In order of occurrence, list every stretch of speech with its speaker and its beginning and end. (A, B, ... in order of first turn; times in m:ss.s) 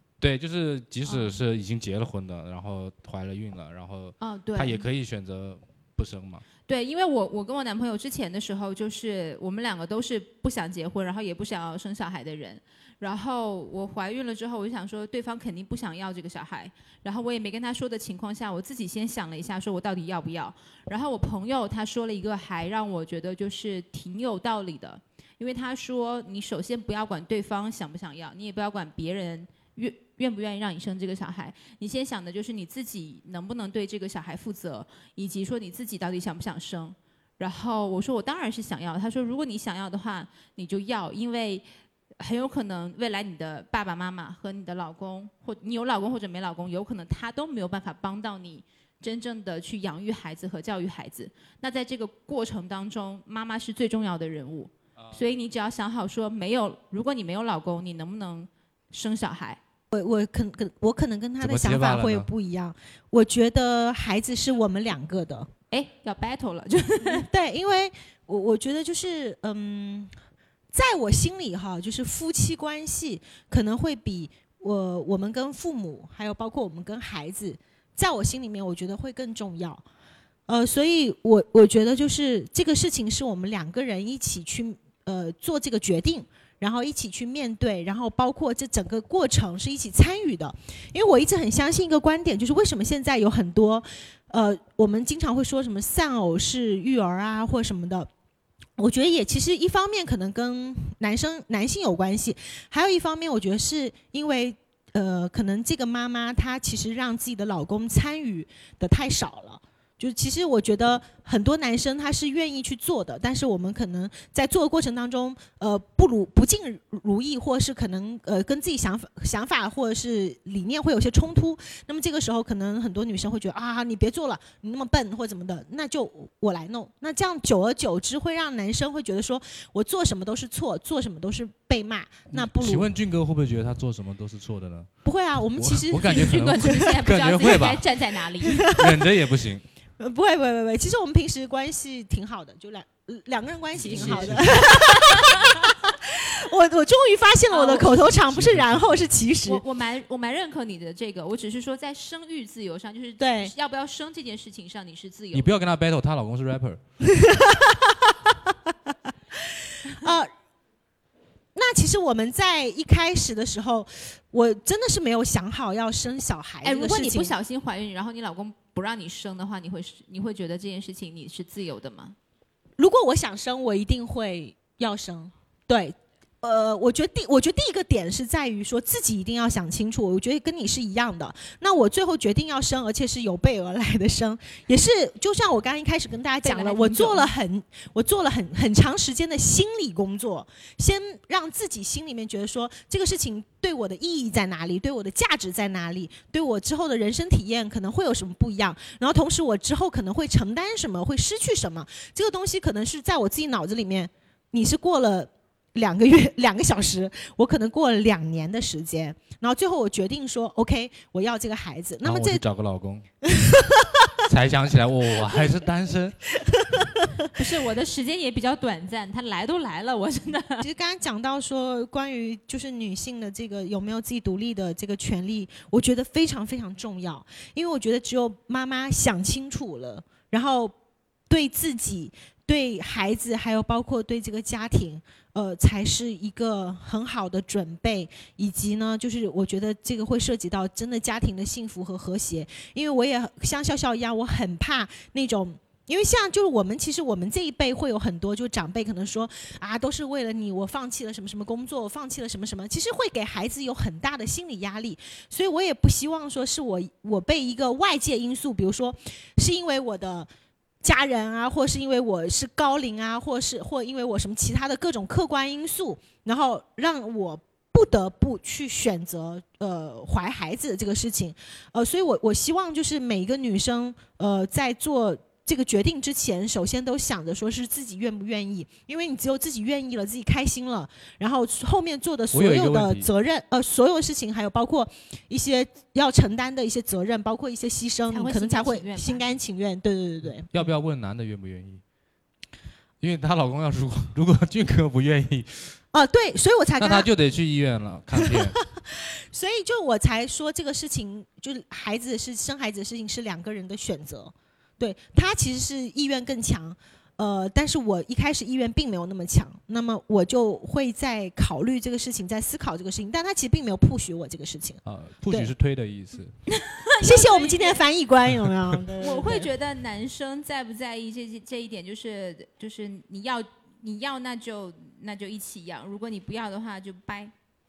0:00.2-0:06.4 A
0:01.0-0:01.4 B
0:04.2-0:04.8 B
0:06.7-0:41.6 B
0:42.2-0:59.6 B
0:59.9-1:05.5 C
1:01.4-1:02.3 A
1:05.7-1:07.2 B
1:07.0-1:10.1 C
1:10.7-1:19.8 C
1:20.5-1:38.1 C
1:38.8-2:12.9 C
2:12.3-2:14.9 A
2:15.0-2:16.8 C
2:15.6-2:17.9 A
2:16.1-2:18.7 B
2:18.4-2:19.1 C
2:18.6-2:19.6 A
2:20.0-2:29.6 C
2:23.8-2:24.6 A
2:23.8-2:25.7 B
2:27.5-2:28.1 B
2:28.1-2:29.0 A
2:29.4-2:35.6 B
2:33.2-2:33.5 C
2:35.3-2:36.8 A
2:37.0-2:38.7 C
2:39.4-2:40.3 C
2:41.5-2:47.4 C
2:46.6-2:52.2 B
2:52.8-3:32.4 C
3:06.4-3:07.3 B
3:32.0-3:33.0 A
3:33.2-3:34.1 C
3:34.2-3:36.2 A
3:37.3-3:40.6 B
3:40.6-3:50.7 C
3:51.3-4:20.3 C
4:20.8-4:50.5 C
4:42.3-4:43.1 A
4:48.1-4:49.2 B
4:50.5-4:51.8 A
4:53.0-4:55.7 A
4:55.9-4:57.1 C
4:56.8-4:58.6 A
4:58.1-5:15.5 C
5:14.8-5:16.3 A
5:16.5-5:17.8 B
5:17.0-5:19.5 C
5:19.0-5:27.3 B